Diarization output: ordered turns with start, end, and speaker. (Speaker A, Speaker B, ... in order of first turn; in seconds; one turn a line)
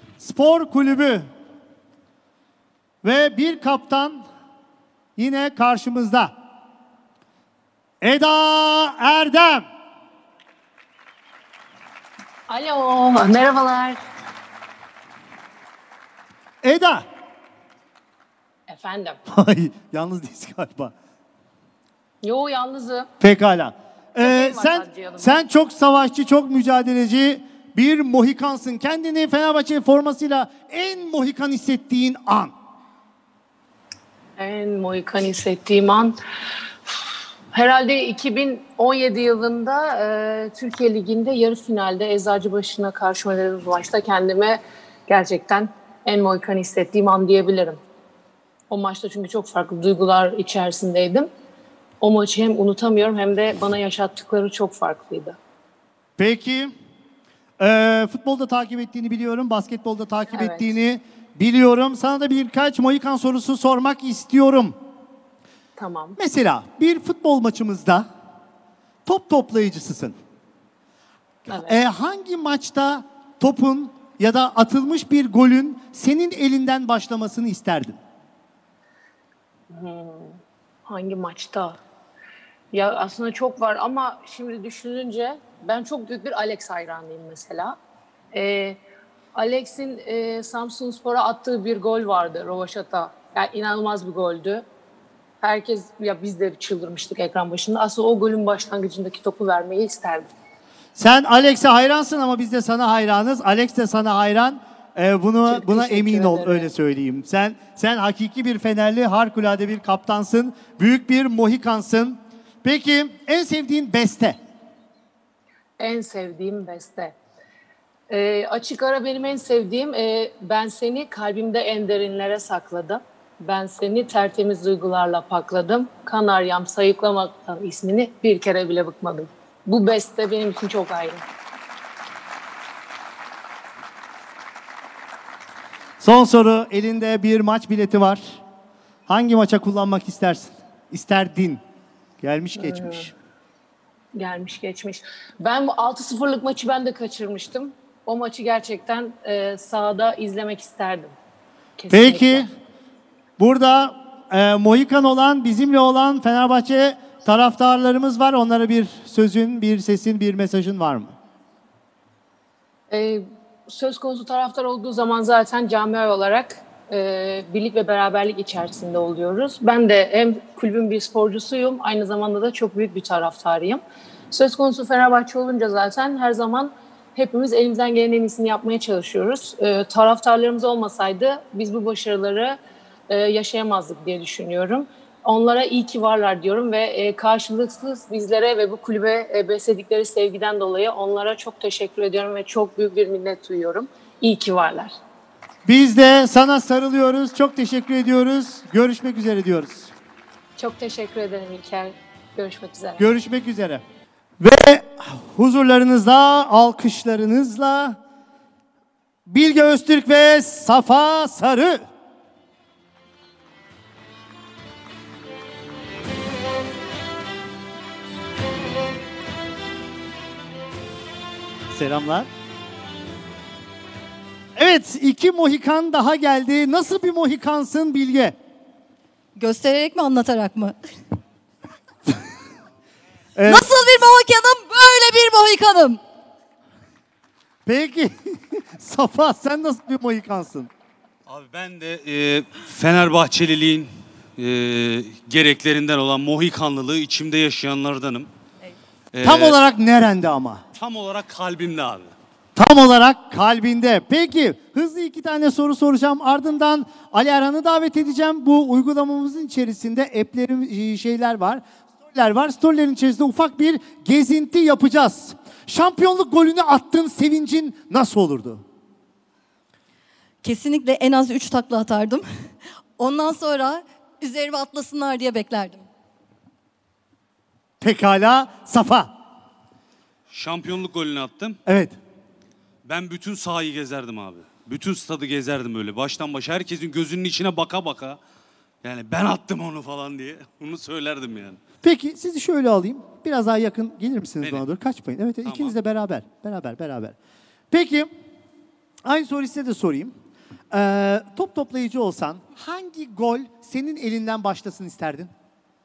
Speaker A: 0.2-1.3
Speaker A: 3.0-4.2
Speaker A: 5.2-6.3
Speaker A: 8.0-9.6
Speaker B: 12.5-14.0
Speaker A: 16.6-17.0
Speaker B: 18.7-19.2
Speaker A: 19.3-20.9
Speaker B: 22.2-23.1
Speaker A: 23.2-32.5
Speaker B: 24.2-25.3
Speaker B: 34.4-36.2
Speaker B: 37.5-47.8
Speaker B: 48.7-51.3
Speaker B: 52.0-55.4
Speaker A: 56.2-56.7
Speaker A: 57.6-64.8
Speaker B: 60.3-60.7
Speaker B: 65.8-66.2
Speaker A: 66.2-68.1
Speaker A: 69.0-70.2
Speaker B: 71.5-71.8
Speaker A: 71.5-78.0
Speaker B: 79.7-81.8
Speaker B: 82.7-87.8
Speaker B: 88.3-88.8
Speaker B: 89.3-94.6
Speaker B: 95.4-100.3
Speaker A: 101.0-114.4
Speaker B: 105.5-106.7
Speaker B: 115.8-117.2
Speaker B: 118.1-131.2
Speaker A: 136.0-138.4
Speaker A: 139.1-141.6
Speaker A: 142.2-143.1
Speaker B: 142.6-143.1
Speaker B: 144.1-151.2
Speaker B: 151.8-152.5
Speaker A: 151.9-152.5
Speaker A: 153.4-161.1
Speaker B: 162.9-182.6
Speaker B: 183.1-194.9
Speaker A: 195.7-199.9
Speaker B: 200.6-203.0
Speaker A: 203.0-203.8
Speaker A: 204.4-208.0
Speaker A: 209.3-211.8
Speaker A: 221.7-222.3
Speaker A: 224.6-228.3
Speaker C: 229.3-230.8
Speaker A: 233.3-233.7
Speaker C: 233.4-236.0
Speaker A: 237.7-240.7
Speaker D: 241.3-248.3
Speaker D: 249.1-249.6
Speaker A: 249.2-250.6
Speaker D: 250.7-252.1
Speaker A: 252.6-268.6
Speaker C: 270.4-275.8
Speaker A: 277.8-279.1
Speaker D: 280.3-281.6
Speaker A: 281.6-281.9
Speaker D: 282.8-288.2
Speaker D: 288.8-291.6
Speaker A: 291.8-297.1
Speaker D: 295.4-295.7
Speaker A: 297.7-298.1
Speaker A: 299.0-300.1
Speaker A: 300.7-305.3